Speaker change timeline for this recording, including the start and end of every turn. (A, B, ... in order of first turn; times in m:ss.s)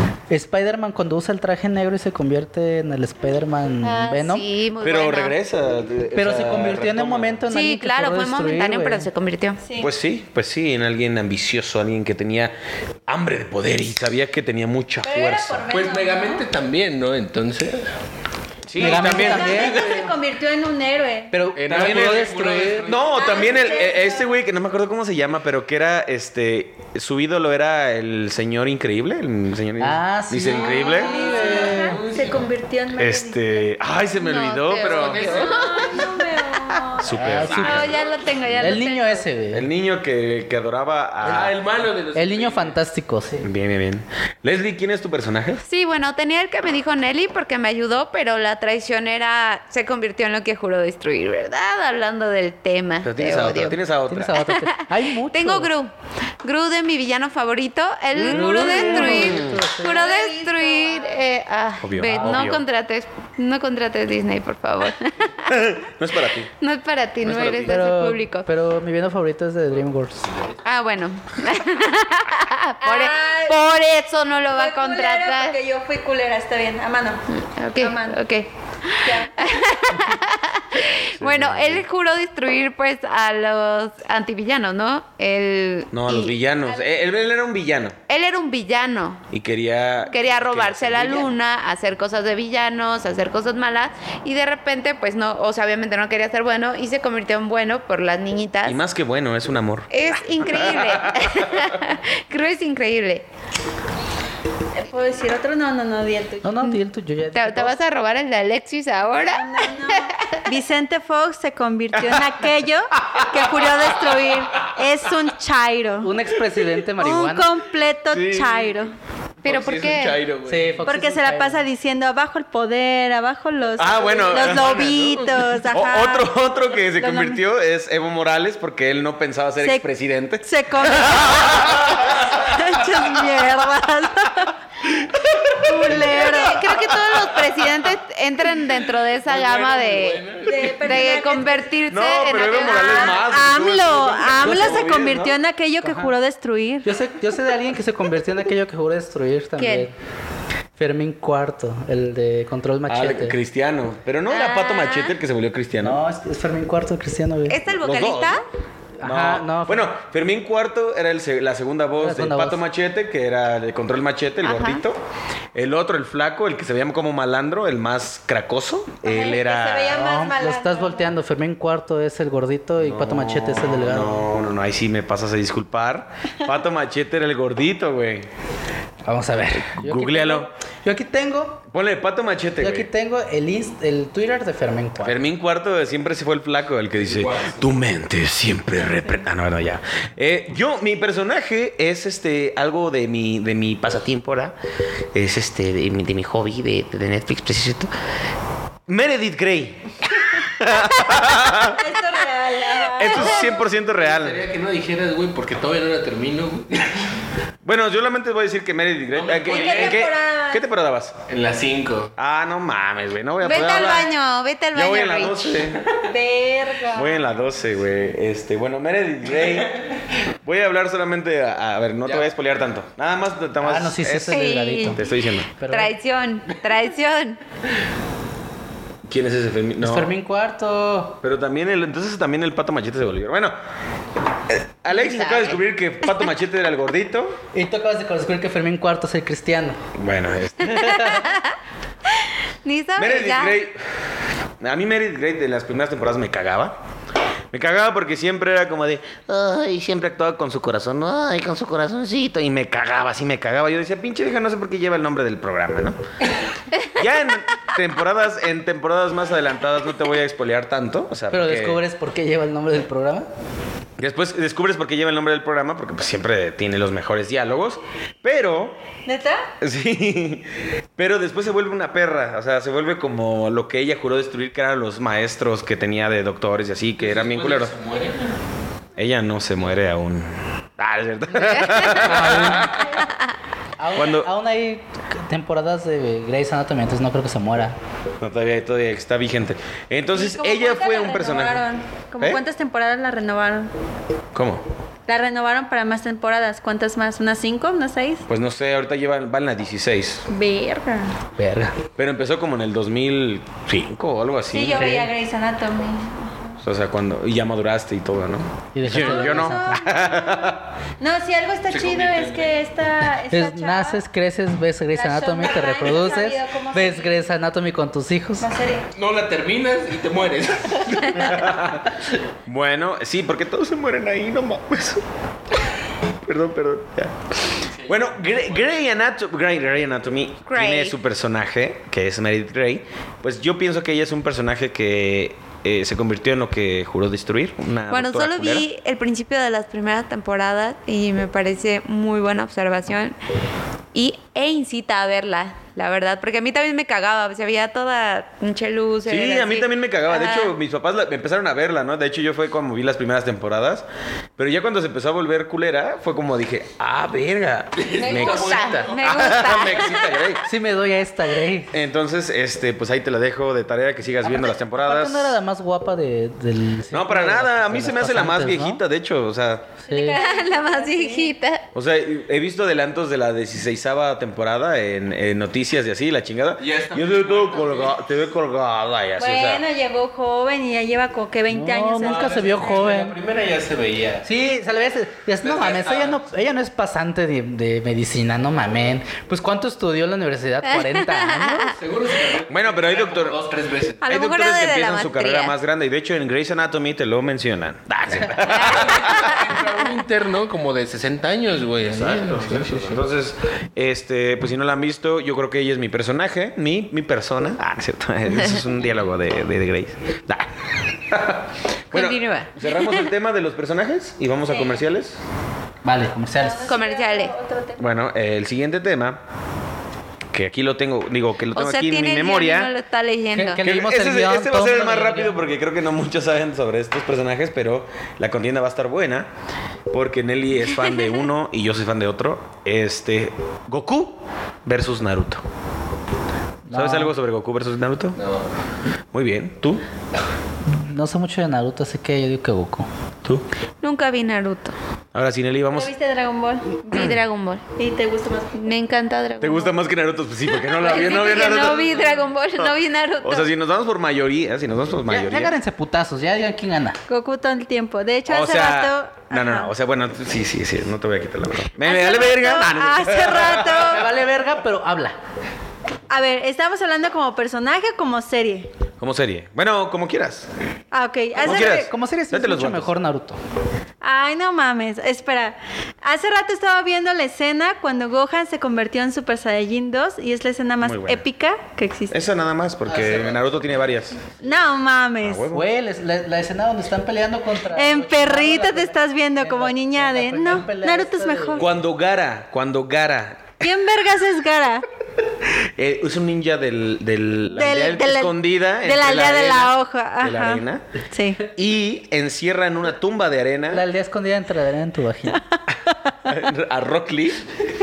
0:00.3-0:04.4 A
0:03.8-0:05.4 B
0:04.8-0:07.4 C
0:06.1-0:09.1 A
0:07.5-0:09.6 B
0:09.6-0:09.9 D
0:09.8-0:12.5 C
0:13.1-0:15.6 C
0:15.0-0:16.4 D
0:15.7-0:17.9 E
0:18.7-0:19.6 C
0:18.8-0:19.8 A
0:18.8-0:21.3 D
0:19.5-0:20.1 E
0:21.3-0:22.9 A
0:21.5-0:23.3 E
0:21.7-0:31.1 C
0:23.1-0:24.3 D
0:29.8-0:32.0 A
0:30.5-0:33.7 D
0:31.0-0:31.7 B
0:31.1-0:32.5 E
0:32.9-0:35.3 C
0:34.1-0:36.9 B
0:34.9-0:35.6 E
0:35.1-0:37.1 D
0:37.0-0:38.0 C
0:37.1-0:38.0 A
0:37.5-0:39.2 B
0:38.6-0:39.6 A
0:39.5-0:41.6 C
0:41.2-0:42.8 E
0:42.1-0:43.5 A
0:43.4-0:45.6 C
0:45.6-0:53.8 B
0:53.0-0:54.4 C
0:54.1-0:55.7 A
0:54.4-1:05.6 B
0:58.2-1:00.1 A
0:58.4-0:59.2 D
0:58.9-0:59.6 C
0:59.8-1:01.2 D
1:01.8-1:02.6 C
1:02.1-1:02.5 A
1:05.5-1:06.5 C
1:06.6-1:08.5 B
1:07.2-1:07.8 C
1:07.6-1:10.3 A
1:10.2-1:10.6 E
1:10.6-1:15.6 B
1:12.8-1:13.9 D
1:14.5-1:18.2 D
1:17.3-1:26.3 B
1:19.0-1:20.0 D
1:21.2-1:21.8 C
1:25.9-1:28.0 C
1:26.7-1:26.9 D
1:28.1-1:29.2 B
1:29.3-1:31.3 C
1:30.1-1:38.8 B
1:38.6-1:41.5 C
1:39.9-1:43.2 B
1:44.7-1:46.5 D
1:46.4-1:47.7 A
1:47.3-1:50.4 B
1:49.1-1:56.1 D
1:56.0-1:57.5 A
1:57.0-1:58.9 D
1:58.1-1:58.5 E
1:59.4-2:00.2 B
1:59.4-2:00.8 E
2:00.4-2:01.6 A
2:00.8-2:06.3 D
2:03.8-2:04.8 C
2:04.0-2:05.5 E
2:05.7-2:11.9 C
2:06.9-2:07.4 D
2:10.4-2:14.6 D
2:15.6-2:16.7 D
2:16.0-2:23.2 B
2:19.2-2:21.1 E
2:20.4-2:21.7 D
2:21.9-2:25.4 C
2:22.6-2:26.8 D
2:25.8-2:26.1 A
2:26.8-2:29.9 A
2:29.6-2:29.9 B
2:30.8-2:33.4 A
2:32.9-2:36.0 C
2:34.3-2:35.1 B
2:35.8-2:37.6 A
2:37.5-2:38.4 B
2:37.8-2:38.4 C
2:39.0-2:39.9 A
2:39.0-2:45.0 C
2:42.0-2:42.6 A
2:44.4-2:44.8 B
2:45.5-2:50.0 C
2:49.0-2:51.1 D
2:49.9-2:54.3 A
2:52.8-2:58.3 C
2:59.0-3:01.6 A
2:59.7-3:00.5 C
3:01.7-3:02.9 C
3:02.6-3:05.2 A
3:05.0-3:14.6 C
3:07.0-3:07.6 E
3:15.1-3:17.9 C
3:18.9-3:21.8 C
3:21.6-3:23.6 D
3:22.9-3:24.4 C
3:24.0-3:27.2 E
3:27.6-3:31.2 C
3:29.1-3:30.1 E
3:29.4-3:30.6 D
3:31.3-3:32.1 E
3:32.2-3:34.1 C
3:33.4-3:35.6 B
3:34.7-3:35.8 C
3:36.0-3:37.2 D
3:36.9-3:39.7 C
3:40.4-3:45.6 C
3:42.0-3:42.3 E
3:43.6-3:45.0 A
3:44.3-3:45.0 B
3:45.6-3:45.9 A
3:45.6-3:47.4 B
3:49.0-3:50.1 C
3:49.8-3:51.2 A
3:51.2-3:53.6 C
3:54.5-3:57.4 C
3:54.9-3:55.6 B
3:57.5-3:59.8 A
3:59.9-4:01.2 C
4:00.6-4:01.5 B
4:02.1-4:03.6 B
4:03.0-4:03.8 C
4:04.6-4:06.7 C
4:07.5-4:16.0 C
4:16.9-4:21.8 C
4:21.3-4:23.3 A
4:24.0-4:28.8 C
4:29.0-4:29.5 D
4:29.6-4:37.8 C
4:37.0-4:38.4 E
4:39.0-4:42.9 C
4:41.7-4:42.7 A
4:42.2-4:42.6 E
4:43.8-4:47.8 A
4:43.9-4:44.3 C
4:48.2-4:51.6 C
4:50.1-4:53.7 D
4:54.3-4:54.6 C
4:55.1-4:58.2 D
4:58.3-5:00.3 C
5:00.3-5:01.1 D
5:01.4-5:01.8 A
5:02.0-5:05.0 C
5:04.5-5:06.6 D
5:04.7-5:05.1 A
5:06.6-5:10.7 C
5:08.7-5:09.8 A
5:08.9-5:10.0 D
5:11.0-5:14.0 D
5:11.7-5:12.6 E
5:13.3-5:18.5 A
5:14.9-5:17.3 D
5:18.4-5:18.9 D
5:18.9-5:21.7 E
5:21.3-5:21.8 C
5:22.4-5:25.0 C
5:26.2-5:38.6 C
5:27.6-5:28.7 E
5:30.5-5:31.0 B
5:37.9-5:43.2 B
5:43.9-5:50.5 B
5:49.0-5:53.8 C
5:54.4-6:00.4 C
5:57.8-5:59.9 E
5:58.0-6:00.2 B
6:00.4-6:01.7 A
6:01.7-6:05.4 C
6:04.2-6:08.8 A
6:06.9-6:09.7 C
6:09.8-6:10.2 A
6:09.9-6:11.3 D
6:10.1-6:11.6 B
6:11.7-6:19.6 C
6:16.6-6:18.0 E
6:19.2-6:22.3 D
6:21.5-6:23.2 A
6:22.0-6:24.3 E
6:24.2-6:31.8 A
6:25.4-6:26.3 E
6:30.7-6:31.7 B
6:31.8-6:34.0 E
6:32.5-6:33.4 C
6:34.0-6:39.4 C
6:34.0-6:35.5 B
6:38.5-6:38.9 B
6:38.6-6:43.0 E
6:41.8-6:50.5 C
6:51.1-6:55.2 C
6:51.9-6:53.1 B
6:54.5-6:54.8 D
6:55.8-6:56.7 A
6:56.3-6:57.8 D
6:56.7-6:57.3 B
6:57.8-6:59.2 C
7:00.3-7:02.7 C
7:01.5-7:03.6 B
7:03.3-7:05.4 A
7:03.6-7:09.3 C
7:09.9-7:15.4 C
7:16.7-7:17.1 A
7:16.7-7:18.2 C
7:18.1-7:18.5 E
7:19.1-7:19.8 C
7:20.6-7:22.9 A
7:23.8-7:24.7 B
7:25.1-7:25.9 C
7:25.7-7:26.8 D
7:26.8-7:27.6 B
7:26.9-7:27.2 C
7:27.8-7:28.8 D
7:28.5-7:29.7 B
7:29.4-7:35.5 C
7:30.6-7:33.5 B
7:35.1-7:37.0 A
7:37.1-7:39.7 D
7:38.3-7:43.9 C
7:41.8-7:44.1 D
7:43.9-7:45.2 A
7:46.1-7:48.7 D
7:49.0-7:50.5 C
7:50.9-7:51.9 D
7:51.4-7:52.9 C
7:51.4-7:53.4 A
7:54.0-8:02.2 D
8:00.8-8:01.2 C
8:02.1-8:04.2 C
8:04.4-8:05.4 D
8:05.2-8:05.7 C
8:05.5-8:11.7 A
8:07.7-8:11.6 D
8:11.6-8:13.7 C
8:13.6-8:14.8 D
8:15.8-8:20.8 C
8:17.5-8:21.4 D
8:21.5-8:23.8 C
8:23.7-8:25.4 A
8:26.3-8:27.4 C